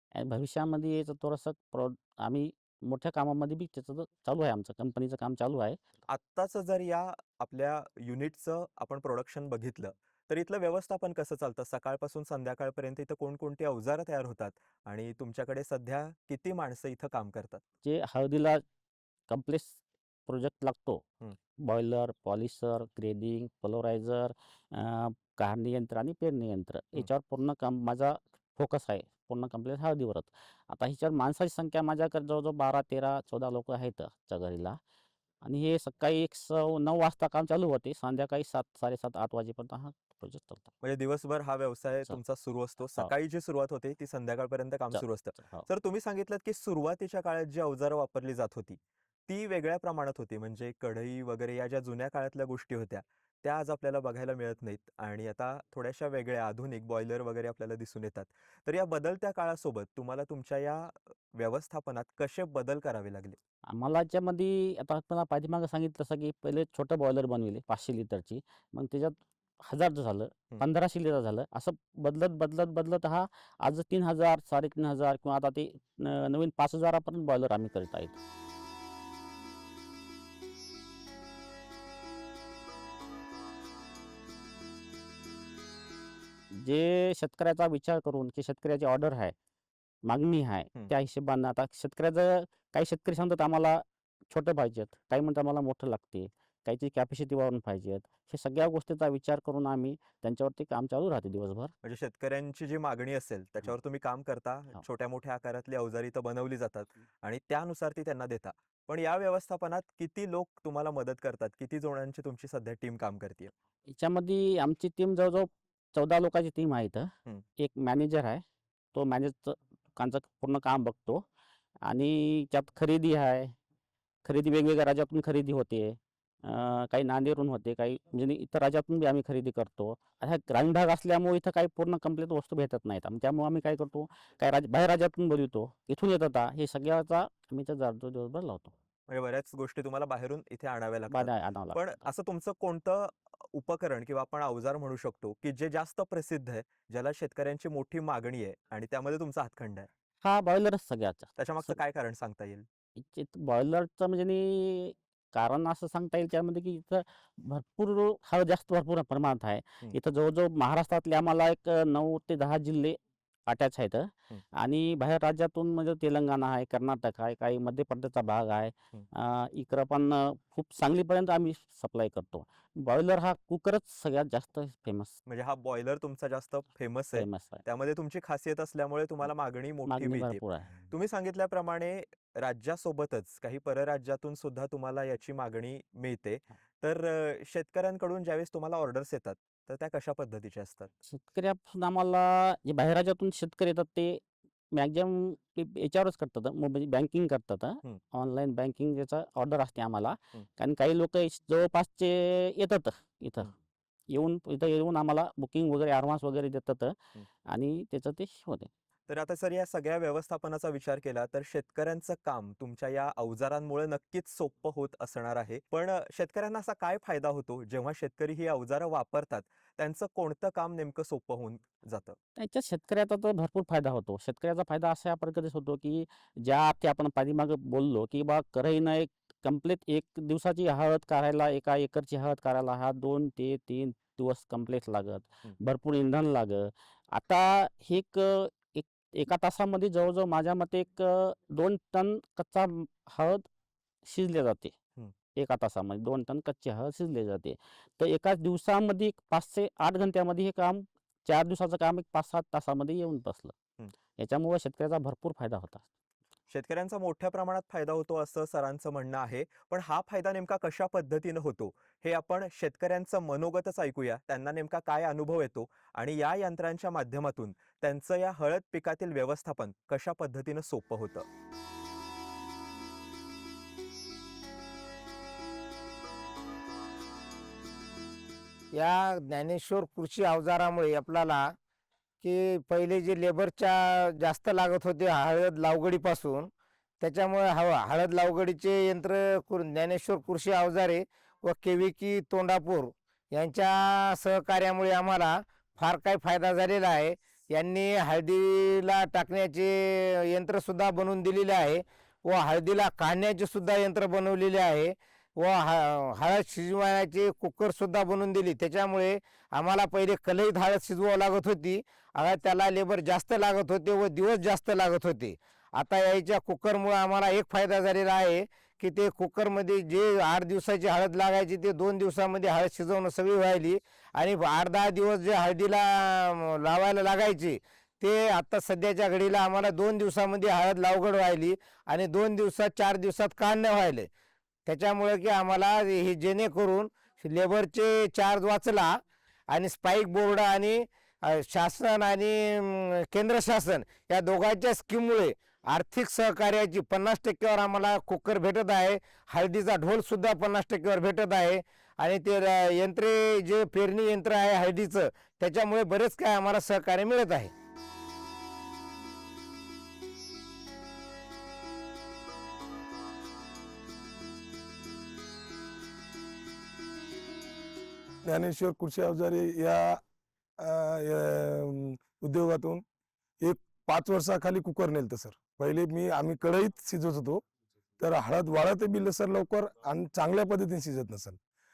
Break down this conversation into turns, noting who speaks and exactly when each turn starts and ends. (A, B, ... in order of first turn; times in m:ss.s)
0:00.2-0:05.8 A
0:06.1-0:17.6 B
0:17.8-0:18.6 A
0:19.3-0:21.0 A
0:21.6-0:34.8 A
0:35.4-0:40.7 A
0:40.8-1:03.4 B
0:44.9-0:45.7 A
1:03.7-1:18.2 A
1:26.5-1:29.4 A
1:30.0-1:41.7 A
1:41.8-1:53.5 B
1:53.9-1:58.4 A
1:58.9-2:01.2 A
2:01.9-2:03.6 A
2:04.2-2:18.7 A
2:19.1-2:29.9 B
2:21.1-2:22.0 A
2:30.2-2:31.8 A
2:31.4-2:32.7 B
2:33.0-2:55.2 A
2:55.3-3:10.9 B
2:57.2-2:57.6 A
2:59.9-3:00.8 A
3:11.1-3:14.2 A
3:14.7-3:23.5 A
3:24.1-3:27.0 A
3:27.5-3:28.7 A
3:29.1-3:42.2 B
3:42.4-4:03.5 A
4:04.0-4:04.7 A
4:05.4-4:13.5 A
4:14.2-4:15.8 A
4:16.5-4:31.3 B
4:38.7-4:41.5 C
4:42.2-4:46.5 C
4:47.0-5:34.1 C
5:34.7-5:39.0 C
5:39.5-5:57.5 C
6:08.2-6:10.0 D
6:10.6-6:12.8 D
6:13.4-6:17.4 D
6:18.0-6:21.4 D